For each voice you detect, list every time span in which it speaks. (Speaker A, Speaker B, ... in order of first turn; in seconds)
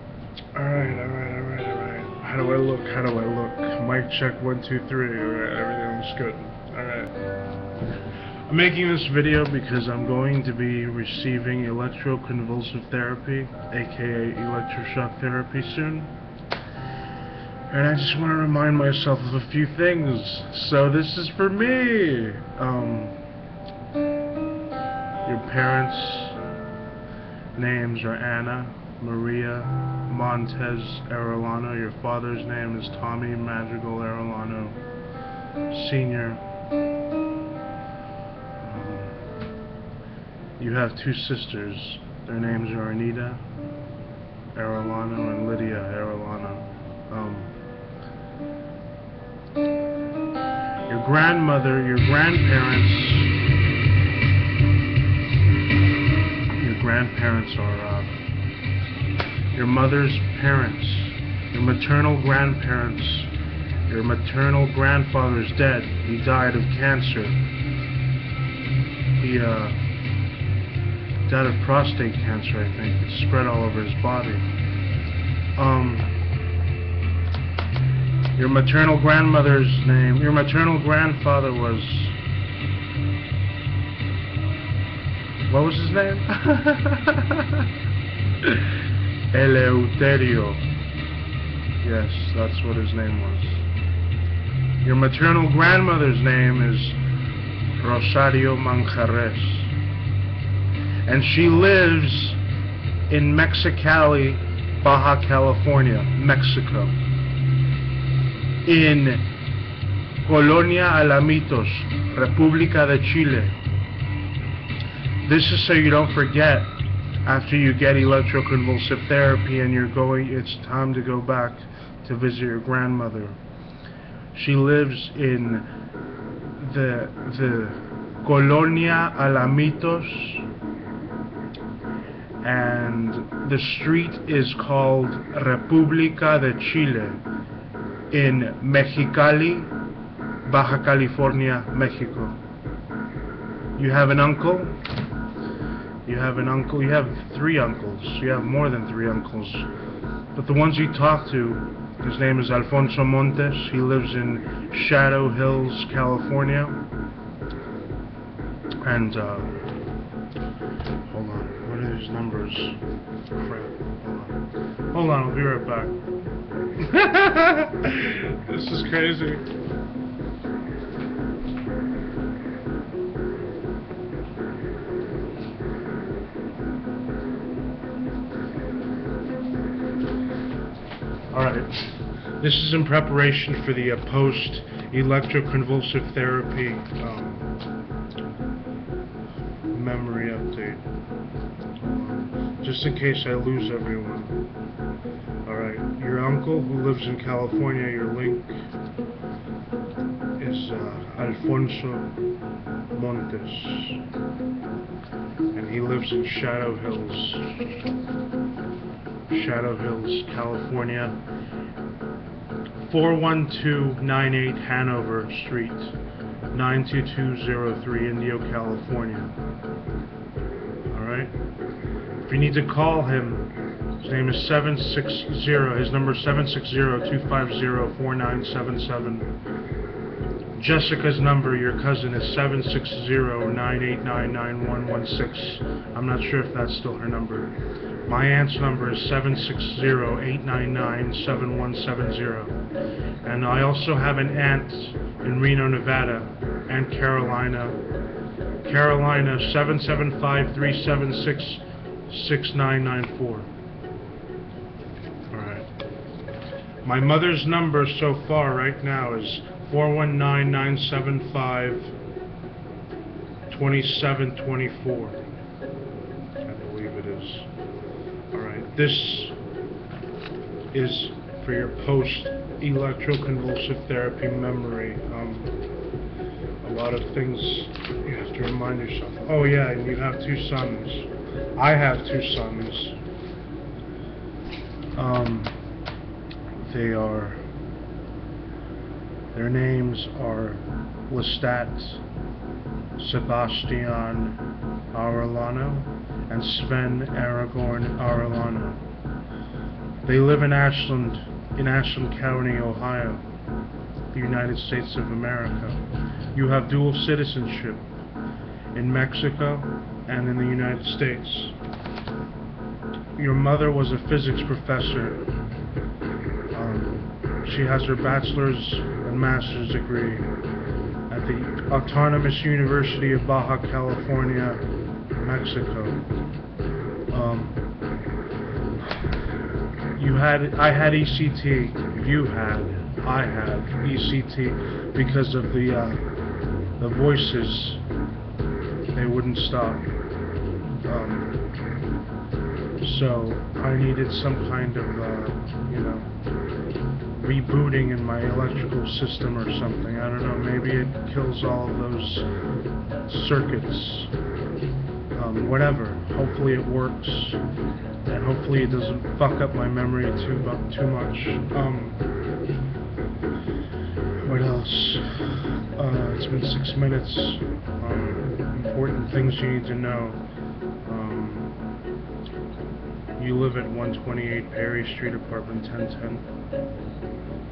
Speaker A: 0.5-7.2, 8.5-16.1, 17.7-23.2, 25.2-26.4, 27.5-34.8, 35.7-36.4, 38.6-39.2, 40.6-43.4, 44.5-47.5, 50.9-53.4, 56.5-58.1, 59.5-63.3, 63.9-67.4, 69.2-69.8, 71.2-74.5, 75.5-76.2, 78.3-82.2, 85.5-87.7, 88.4-88.7, 89.3-90.6, 91.8-93.7, 94.8-97.0, 97.8-99.7, 101.0-102.4, 103.1-107.0, 108.6-109.3, 110.2-113.6, 115.2-123.4, 124.3-125.7, 126.6-130.4, 132.4-137.2, 138.1-139.7, 140.4-142.4, 143.8-144.8, 146.0-149.7, 150.3-156.8, 158.8-159.6, 161.1-162.8, 163.3-164.4, 164.9-165.9, 166.8-169.4, 181.3-187.5, 189.7-190.8, 191.8-194.4, 195.4-198.6, 200.4-202.1, 202.9-204.0, 205.5-207.7, 209.3-211.2, 212.8-215.9, 216.5-219.3, 220.9-221.3, 222.2-229.3, 230.5-237.5, 238.0-242.6, 243.2-247.8, 248.6-253.5, 255.3-255.7, 256.8-261.9, 263.5-265.2, 266.4-267.5, 268.3-269.4, 270.7-275.6, 276.6-283.0, 284.9-285.6, 286.5-287.4, 289.3-292.0, 293.0-294.4, 294.9-298.8, 300.0-303.2, 304.1-305.8, 306.3-307.9, 308.7-311.5, 313.1-315.2, 316.5-320.3, 321.1-324.6, 325.1-326.0, 327.1-327.6, 329.9-336.0, 336.8-337.8, 338.9-339.9, 340.8-341.4, 342.8-346.1, 347.1-352.3, 353.1-354.1, 355.1-357.4, 358.1-362.0, 364.2-370.2, 370.8-371.5, 373.2-376.3